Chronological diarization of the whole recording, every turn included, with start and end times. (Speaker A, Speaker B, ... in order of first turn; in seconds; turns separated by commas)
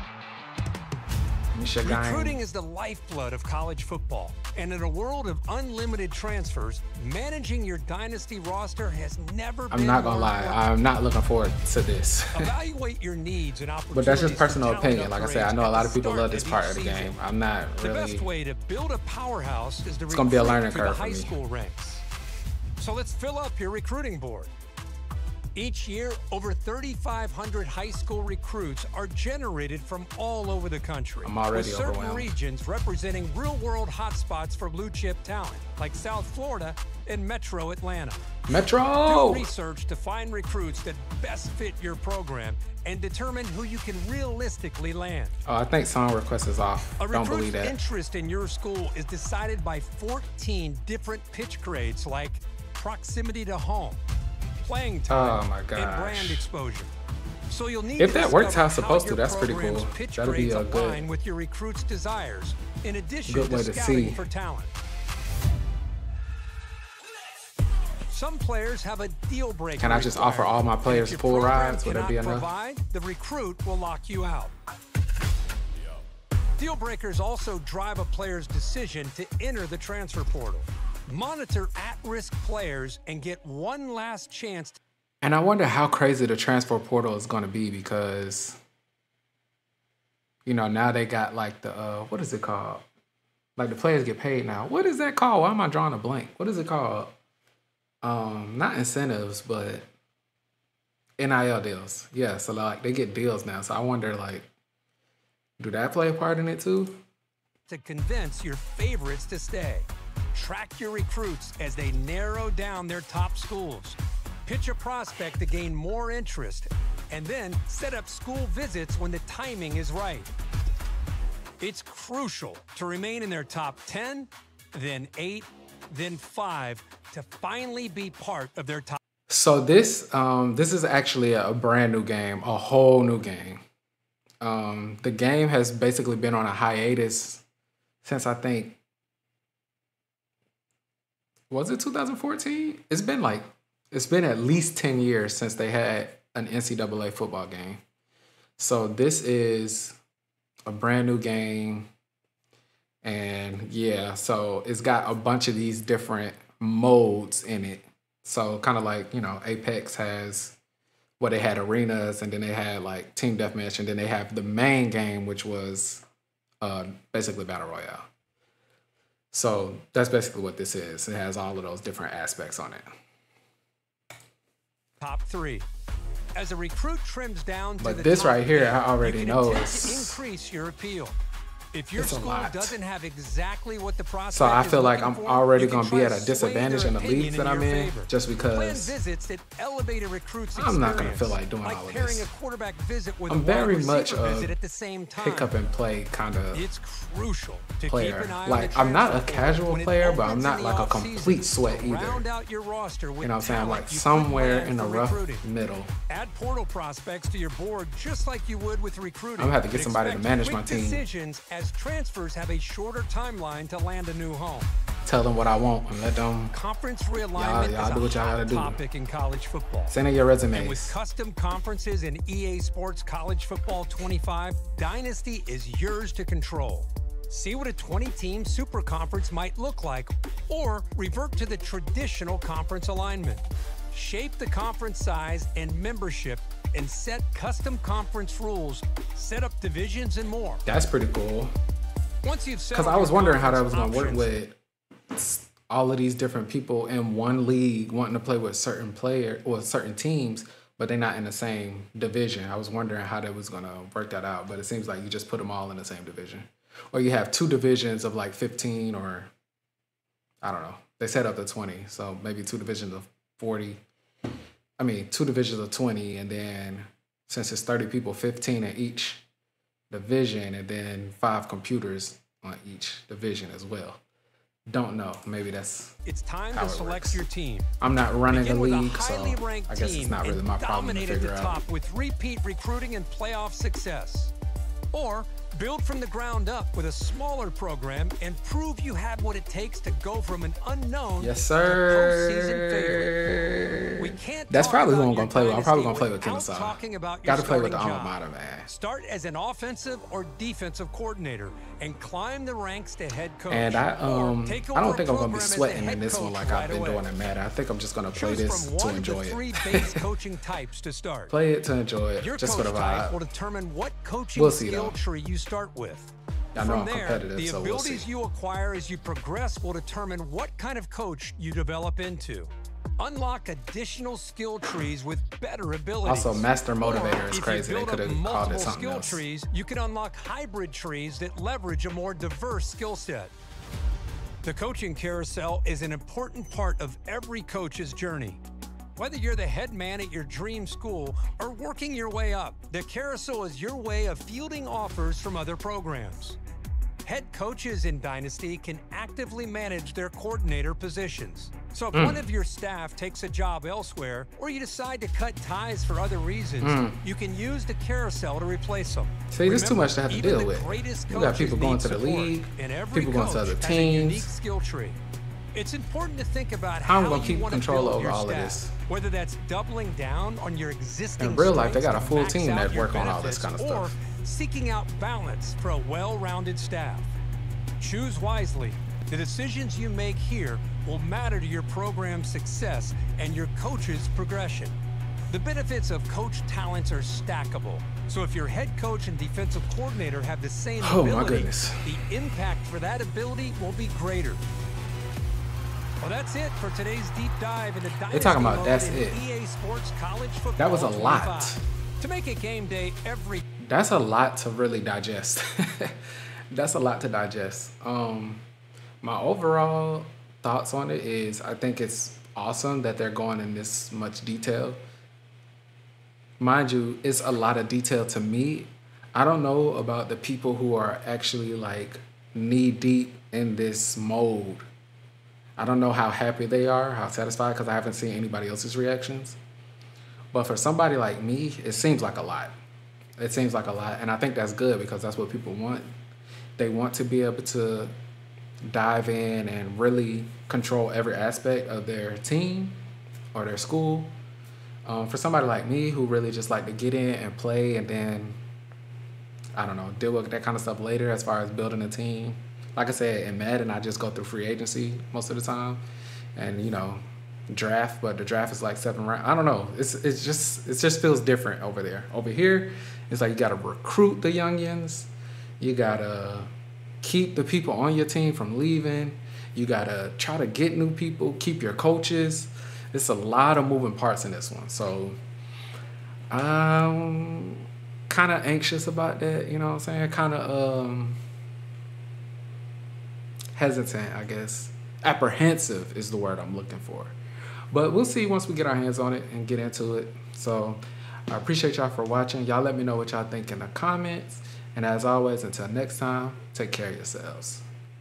Speaker A: 1.6-2.4, Speaker B: 1.8-10.7, Speaker A: 9.7-12.5, Speaker B: 12.3-17.2, Speaker A: 13.9-18.3, Speaker B: 17.8-22.1, Speaker A: 20.1-21.3, Speaker B: 22.8-24.5, Speaker B: 25.6-38.3, Speaker A: 31.2-32.3, Speaker A: 38.5-39.5, Speaker B: 39.1-45.4, Speaker A: 45.5-47.8, Speaker B: 47.0-54.0, Speaker B: 54.6-56.9, Speaker A: 55.1-56.5, Speaker B: 57.5-64.7, Speaker A: 58.0-61.0, Speaker A: 63.3-64.2, Speaker B: 68.1-74.5, Speaker A: 69.8-72.5, Speaker B: 76.6-84.8, Speaker A: 85.2-88.6, Speaker A: 90.5-92.9, Speaker A: 93.6-97.1, Speaker A: 98.0-99.9, Speaker A: 101.2-104.5, Speaker A: 105.6-107.0, Speaker B: 107.7-120.3, Speaker B: 121.6-129.0, Speaker A: 129.3-133.6, Speaker A: 134.4-137.4, Speaker A: 138.0-138.8, Speaker A: 141.5-147.8, Speaker A: 148.6-150.0, Speaker A: 150.7-151.9, Speaker A: 153.0-160.6, Speaker A: 161.2-166.1, Speaker A: 166.6-168.0, Speaker A: 169.3-172.8, Speaker B: 175.0-175.7, Speaker B: 176.3-181.2, Speaker A: 177.8-180.2, Speaker B: 181.7-195.6, Speaker A: 182.0-182.8, Speaker A: 184.3-189.0, Speaker A: 190.6-192.3, Speaker A: 193.3-194.5, Speaker A: 195.2-196.7, Speaker B: 196.5-205.5, Speaker A: 197.9-202.2, Speaker A: 203.2-205.9, Speaker B: 206.1-214.7, Speaker A: 209.4-211.0, Speaker A: 215.1-216.6, Speaker B: 216.5-220.0, Speaker A: 217.3-218.8, Speaker A: 219.9-220.9, Speaker B: 220.5-240.7, Speaker A: 240.7-241.5, Speaker B: 242.2-244.3, Speaker A: 242.7-244.6, Speaker A: 245.1-259.3, Speaker A: 260.4-263.8, Speaker A: 264.8-269.2, Speaker A: 269.9-274.0, Speaker A: 274.7-275.9, Speaker B: 276.1-277.7, Speaker A: 276.5-277.2, Speaker A: 277.8-281.6, Speaker B: 278.3-284.3, Speaker B: 284.9-293.2, Speaker A: 291.2-298.7, Speaker B: 294.0-307.1, Speaker A: 303.5-310.0, Speaker B: 308.1-311.4, Speaker A: 311.3-313.2, Speaker B: 312.2-333.3, Speaker A: 314.4-315.0, Speaker A: 316.6-318.1, Speaker A: 326.1-329.2, Speaker B: 334.4-338.4, Speaker B: 339.0-346.4, Speaker B: 347.1-365.0, Speaker A: 351.9-352.2, Speaker A: 356.6-357.0, Speaker A: 359.3-364.3, Speaker B: 365.5-377.1, Speaker A: 366.8-368.7, Speaker A: 371.2-373.9, Speaker B: 377.8-384.8, Speaker B: 385.3-394.4, Speaker A: 390.8-391.9, Speaker B: 396.0-403.4, Speaker A: 398.1-399.2, Speaker A: 400.6-401.6, Speaker A: 403.6-406.0, Speaker A: 406.5-408.4, Speaker A: 409.0-414.8, Speaker A: 416.4-424.6, Speaker A: 425.6-429.4, Speaker A: 430.3-432.6, Speaker A: 433.2-435.9, Speaker A: 436.6-437.9, Speaker A: 438.7-442.8, Speaker A: 443.3-444.1, Speaker A: 444.9-448.4, Speaker A: 449.6-455.8, Speaker A: 456.4-466.5, Speaker A: 467.0-475.2, Speaker A: 476.3-481.2, Speaker A: 483.6-487.1, Speaker A: 487.7-497.6